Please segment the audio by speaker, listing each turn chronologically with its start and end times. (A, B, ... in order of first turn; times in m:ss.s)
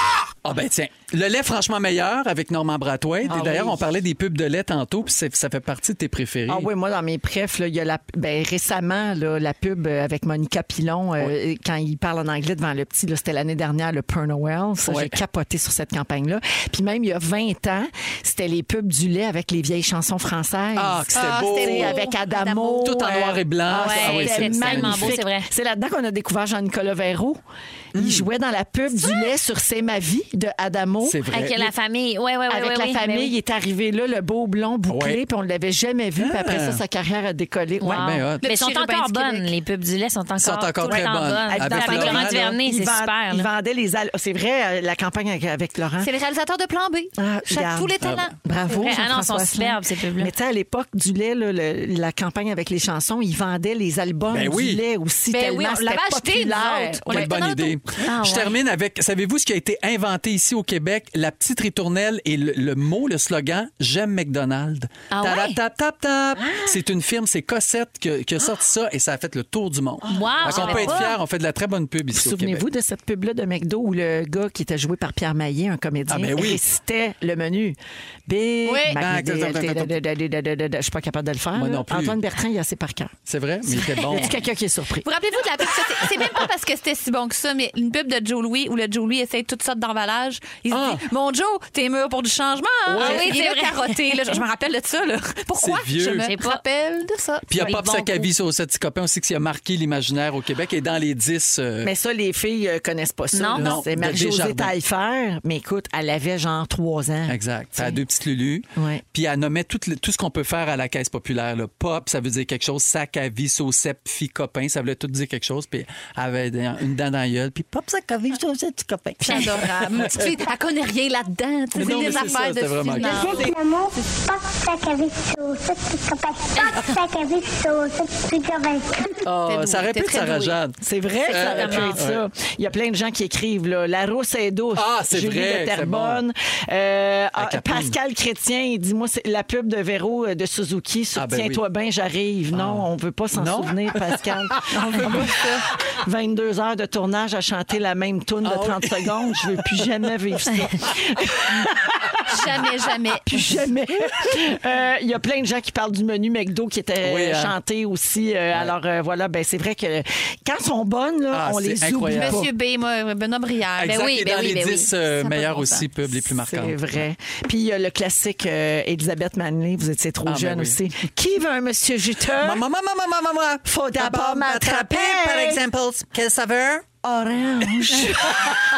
0:00.4-0:06.7 A
0:03.2-0:03.8 B
0:06.5-0:27.4 B
0:14.8-0:15.2 A
0:20.8-0:22.0 A
0:21.1-0:23.1 C
0:22.8-0:25.2 A
0:23.7-0:25.5 D
0:28.0-0:28.3 A
0:28.0-0:31.2 B
0:31.0-0:31.7 A
0:31.3-0:33.3 D
0:32.5-0:38.1 B
0:34.9-0:35.2 A
0:36.2-0:36.8 A
0:37.8-0:43.5 D
0:37.9-0:38.4 A
0:38.4-0:39.5 C
0:40.4-0:42.5 A
0:41.0-0:46.1 B
0:46.0-0:48.4 C
0:47.2-0:57.4 B
0:48.0-0:48.3 A
0:48.7-0:50.3 D
0:54.3-0:54.8 A
0:55.3-0:57.8 C
0:57.1-1:12.6 A
0:58.0-0:58.6 D
1:05.1-1:05.6 D
1:10.1-1:11.2 D
1:10.4-1:11.0 B
1:12.1-1:23.1 B
1:16.1-1:16.6 A
1:18.6-1:19.0 C
1:19.0-1:19.9 A
1:21.6-1:22.2 A
1:23.3-1:24.4 A
1:23.8-1:25.1 B
1:25.0-1:37.8 C
1:30.7-1:31.0 A
1:32.9-1:33.3 A
1:33.0-1:34.4 D
1:35.6-1:36.3 A
1:36.2-1:36.6 D
1:37.5-1:41.9 A
1:37.6-1:38.3 D
1:41.8-1:48.0 B
1:43.3-1:43.8 D
1:43.6-1:44.7 A
1:47.3-2:00.3 A
1:48.8-1:49.0 B
1:59.2-2:03.5 C
2:01.7-2:03.3 A
2:01.8-2:02.3 B
2:03.0-2:09.3 E
2:03.2-2:03.5 B
2:09.2-2:12.2 A
2:09.4-2:10.6 C
2:10.8-2:25.3 B
2:11.3-2:12.0 D
2:14.7-2:16.2 A
2:17.4-2:17.9 A
2:21.2-2:21.6 A
2:22.5-2:25.4 A
2:24.8-2:25.6 C
2:26.0-2:32.1 B
2:28.4-2:29.5 A
2:32.3-2:33.4 C
2:33.2-2:42.5 B
2:37.0-2:37.6 A
2:41.3-2:42.5 A
2:42.1-2:45.9 C
2:43.8-2:46.8 A
2:46.4-2:52.6 B
2:50.3-2:50.8 A
2:52.4-2:56.9 A
2:53.7-2:55.6 B
2:57.0-2:58.6 B